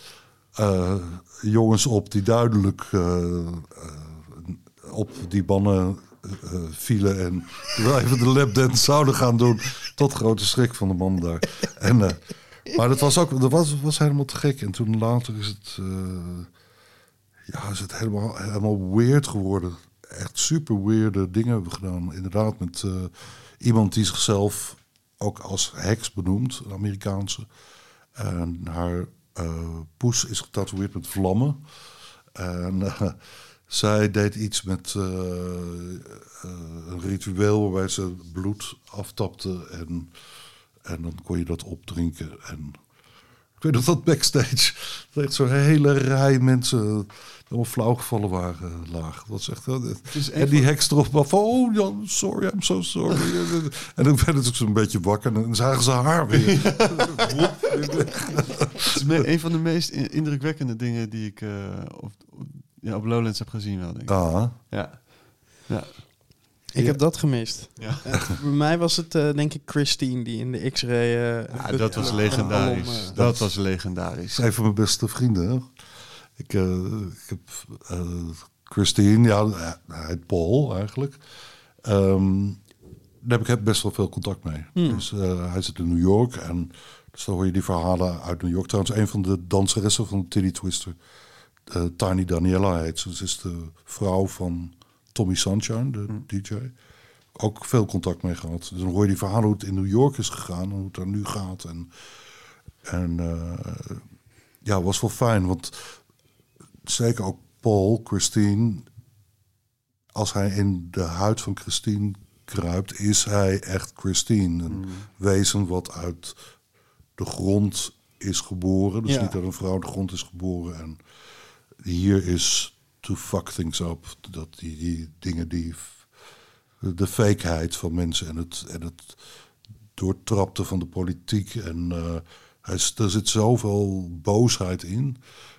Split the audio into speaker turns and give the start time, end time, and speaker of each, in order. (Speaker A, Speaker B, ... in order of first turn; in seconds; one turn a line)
Speaker A: 0.5-16.5
Speaker A: 17.5-27.5
Speaker A: 28.1-31.6
Speaker A: 32.3-40.1
Speaker A: 40.8-42.8
Speaker A: 43.6-59.2
Speaker B: 50.1-50.7
Speaker B: 56.3-58.1
Speaker B: 58.9-66.0
Speaker A: 64.1-64.5
Speaker A: 66.7-67.0
Speaker C: 66.7-73.2
Speaker B: 67.8-68.0
Speaker B: 71.5-74.5
Speaker A: 71.9-73.5
Speaker A: 74.3-75.7
Speaker A: 76.4-81.2
Speaker A: 81.8-82.6
Speaker A: 83.2-91.0
Speaker C: 84.8-85.0
Speaker A: 91.7-96.7
Speaker A: 97.3-101.9
Speaker A: 102.8-104.0
Speaker A: 104.6-106.0
Speaker A: 106.8-108.9
Speaker A: 110.1-116.4
Speaker B: 114.7-115.0
Speaker A: 117.2-121.0
Speaker C: 119.0-119.3
Speaker A: 121.8-126.0
Speaker A: 126.8-129.2
Speaker A: 129.9-135.2